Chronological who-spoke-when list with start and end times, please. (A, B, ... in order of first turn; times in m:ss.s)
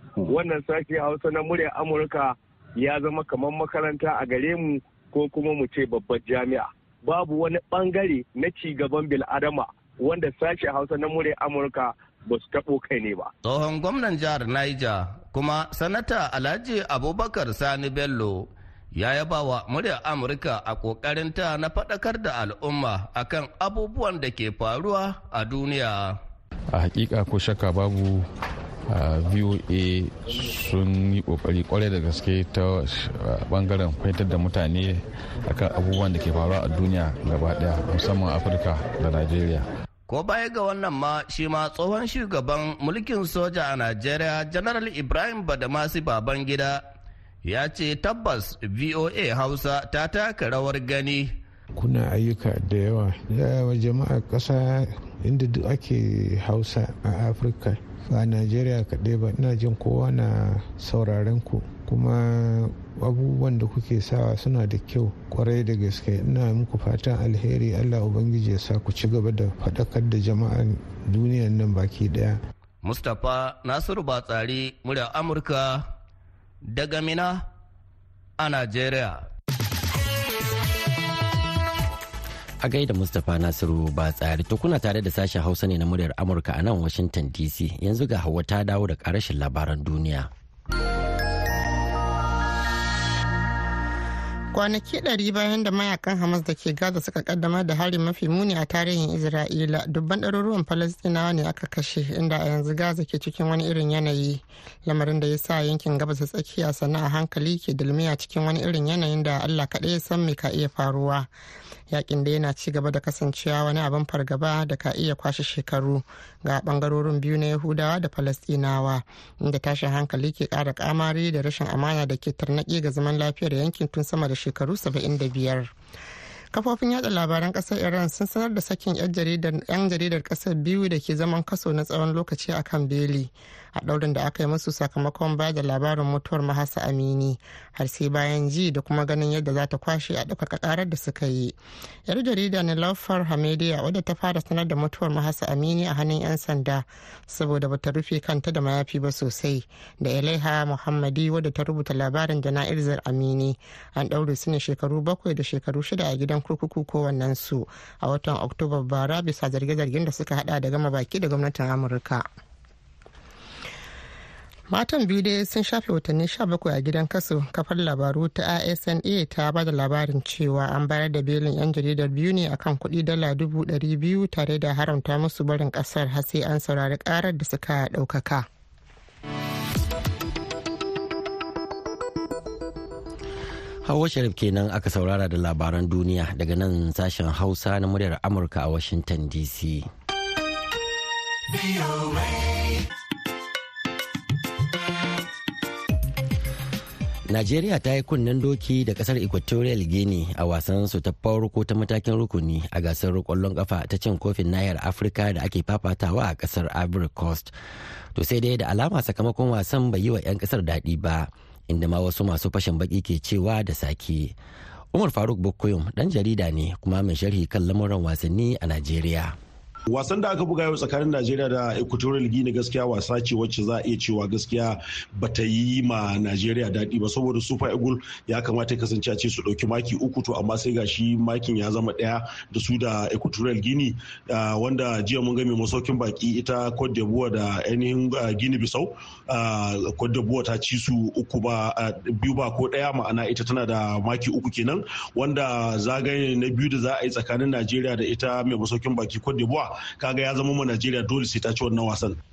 0:00.2-0:13.3 A
0:13.4-0:26.2 B
0:26.7-0:28.3 C
0:28.9-0:39.7 C
0:40.1-0:46.8 B
0:47.4-0:51.4 B
0:51.8-1:12.4 D
1:12.8-1:15.9 B
1:16.6-1:17.5 B
1:18.4-1:19.3 B
1:22.6-1:30.3 E
1:34.5-1:51.3 F
1:51.9-2:05.7 F
2:06.5-2:21.6 F
2:22.1-2:42.2 F
2:44.7-2:58.5 F
3:03.8-3:09.9 E
3:17.3-3:27.5 E
3:28.2-3:34.4 E
3:34.9-3:39.4 E
3:39.9-4:12.2 G